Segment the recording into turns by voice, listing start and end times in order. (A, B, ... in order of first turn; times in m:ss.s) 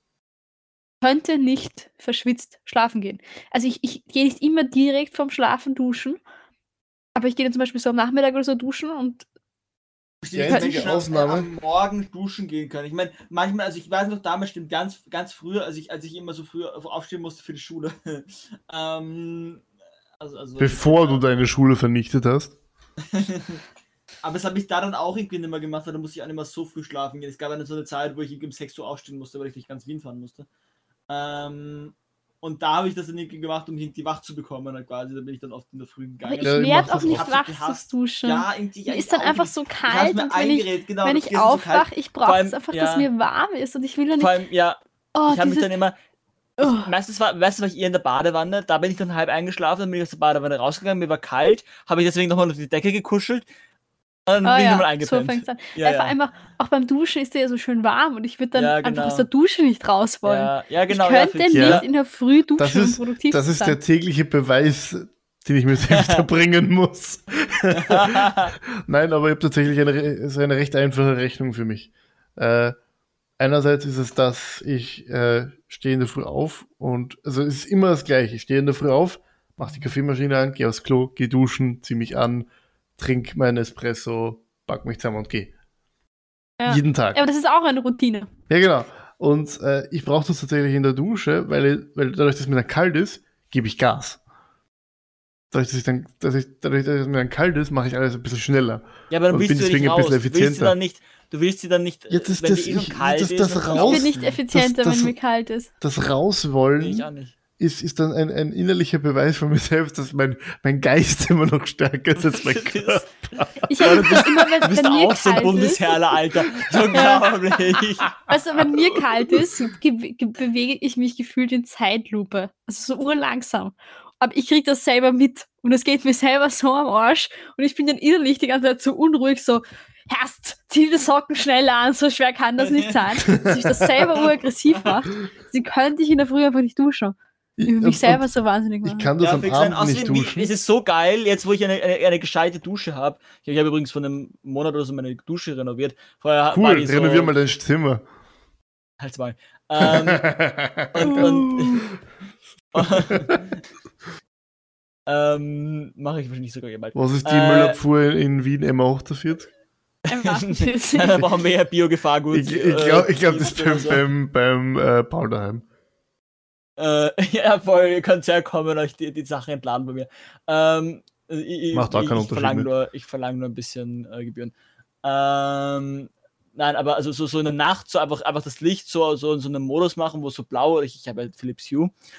0:01.0-0:06.2 A
0:07.1-0:09.2 A
0:10.2-0:19.6 B
0:10.3-0:11.5 C
0:10.5-0:10.8 A
0:20.2-0:21.2 B
0:20.6-0:22.5 C
0:23.0-0:23.6 B
0:24.2-0:30.5 B
0:31.1-0:43.1 B
0:36.2-0:44.4 A
0:36.4-0:37.3 C
0:44.2-0:46.0 B
0:45.1-0:45.7 A
0:46.6-0:46.9 A
0:46.6-0:53.4 B
0:54.3-0:56.2 B
0:54.4-1:03.8 A
0:58.5-0:59.3 B
1:00.2-1:01.9 B
1:01.5-1:01.8 C
1:02.6-1:12.8 C
1:05.9-1:06.2 B
1:07.7-1:08.5 B
1:13.4-1:25.5 C
1:26.6-1:28.3 A
1:26.6-1:27.2 C
1:28.5-1:34.2 C
1:35.5-1:40.8 C
1:39.1-1:44.4 B
1:42.1-1:45.1 C
1:43.8-1:45.7 A
1:45.8-1:47.0 C
1:46.8-1:47.3 B
1:47.6-1:54.4 C
1:52.2-1:58.2 B
1:53.7-1:55.8 A
1:56.9-1:57.2 A
1:58.3-2:19.1 A
1:58.6-1:59.6 C
2:12.6-2:13.2 B
2:13.3-2:13.9 C
2:17.6-2:18.2 C
2:18.8-2:20.5 C
2:19.2-2:27.3 B
2:26.5-2:28.0 C
2:29.0-2:30.3 B
2:29.8-2:31.8 C
2:30.9-2:31.9 B
2:31.0-2:31.5 A
2:32.7-2:33.6 B
2:32.8-2:33.4 C
2:35.1-2:37.8 B
2:36.9-2:39.5 C
2:40.1-2:41.2 A
2:40.1-2:44.0 B
2:42.3-2:45.6 C
2:46.8-2:54.5 B
2:51.7-2:52.7 C
2:55.0-3:01.9 B